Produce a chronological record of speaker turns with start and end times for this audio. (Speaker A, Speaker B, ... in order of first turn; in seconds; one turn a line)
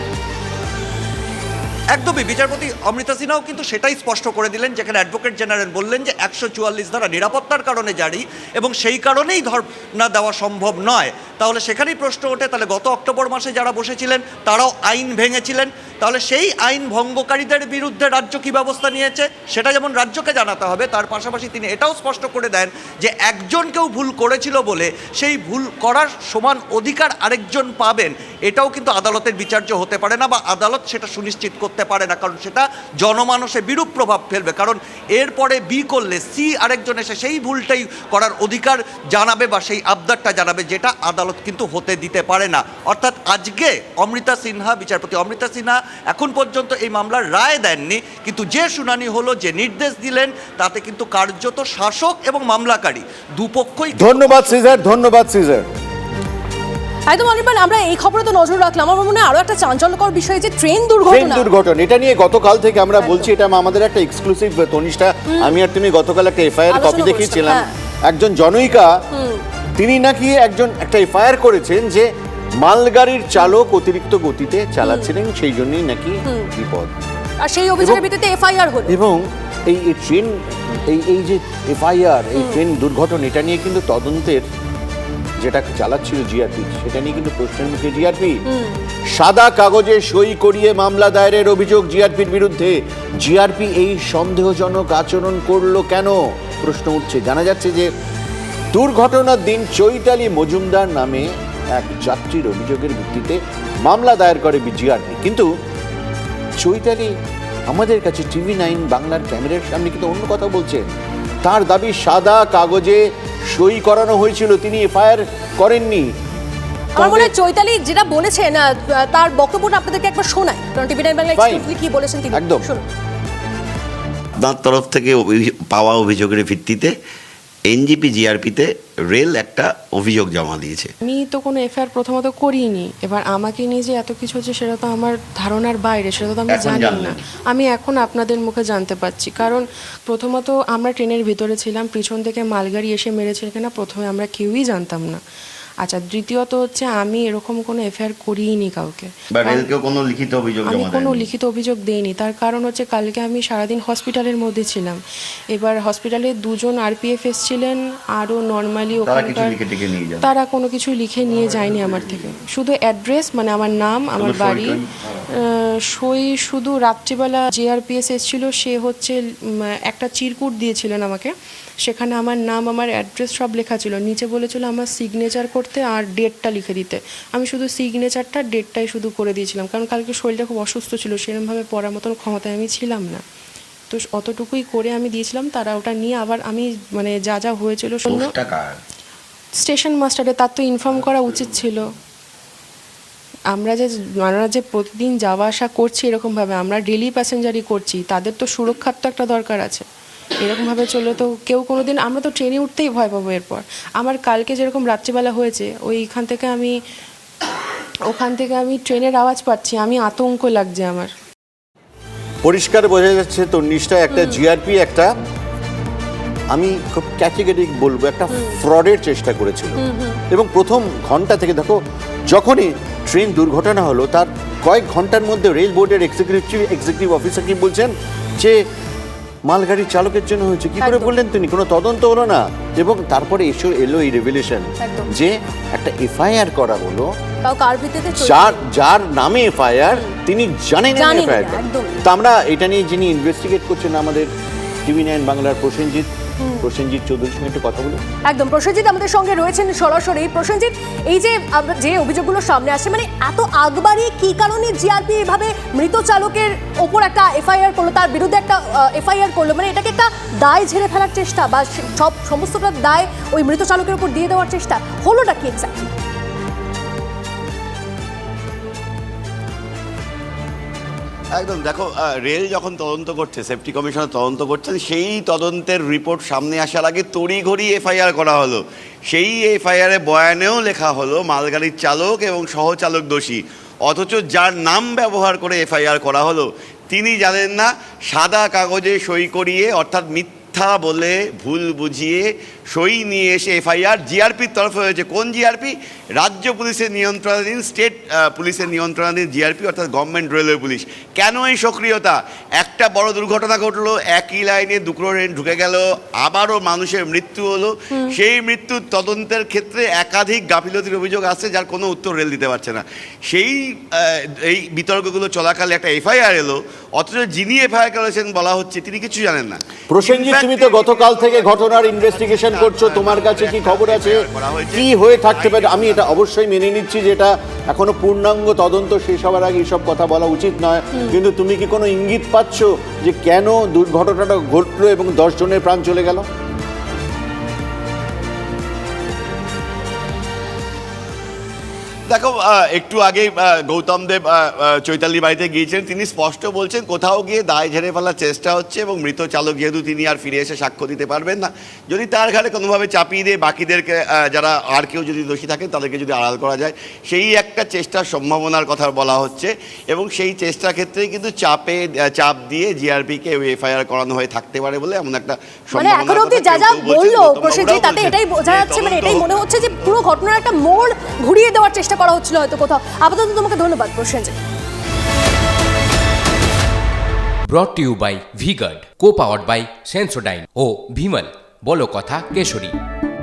Speaker A: 1.9-54.8
Speaker B: 53.9-55.6
Speaker C: 57.1-61.5
Speaker B: 61.0-68.9
Speaker C: 63.0-63.3
Speaker C: 65.3-65.6
Speaker C: 66.7-67.7
Speaker C: 69.1-69.4
Speaker B: 69.8-72.1
Speaker B: 72.6-76.9
Speaker C: 74.8-75.1
Speaker C: 77.4-79.0
Speaker B: 78.9-80.4
Speaker B: 80.9-84.5
Speaker B: 85.4-88.4
Speaker C: 88.5-88.8
Speaker B: 89.1-97.9
Speaker B: 98.7-105.5
Speaker B: 106.6-107.1
Speaker B: 107.7-110.9
Speaker B: 111.4-116.1
Speaker C: 117.0-122.8
Speaker B: 117.0-117.3
Speaker B: 121.3-121.7
Speaker B: 122.3-122.7
Speaker D: 124.4-127.0
Speaker D: 127.7-130.9
Speaker E: 131.0-145.2
Speaker D: 136.5-137.2
Speaker E: 145.8-149.7
Speaker D: 149.3-151.3
Speaker E: 150.6-155.0
Speaker E: 155.5-159.7
Speaker D: 159.0-160.3
Speaker E: 160.2-164.8
Speaker D: 161.7-162.3
Speaker D: 164.2-164.9
Speaker E: 165.3-171.3
Speaker E: 171.8-183.2
Speaker E: 183.9-188.3
Speaker D: 188.1-188.8
Speaker E: 189.6-191.9
Speaker E: 193.5-199.8
Speaker E: 200.4-206.8
Speaker E: 208.1-211.1
Speaker B: 212.4-215.1
Speaker C: 214.1-214.4
Speaker B: 216.5-219.8
Speaker C: 219.8-220.2
Speaker B: 220.3-228.6
Speaker B: 229.5-237.1
Speaker C: 230.8-231.1
Speaker C: 234.8-235.1
Speaker C: 237.4-238.6
Speaker B: 238.2-244.3
Speaker C: 240.9-242.0
Speaker B: 244.8-246.1
Speaker C: 246.4-246.7
Speaker B: 246.6-248.0
Speaker C: 248.3-265.9
Speaker D: 271.3-326.2
Speaker B: 319.9-336.3
Speaker D: 342.1-370.0
Speaker C: 365.7-374.4
Speaker F: 377.5-382.7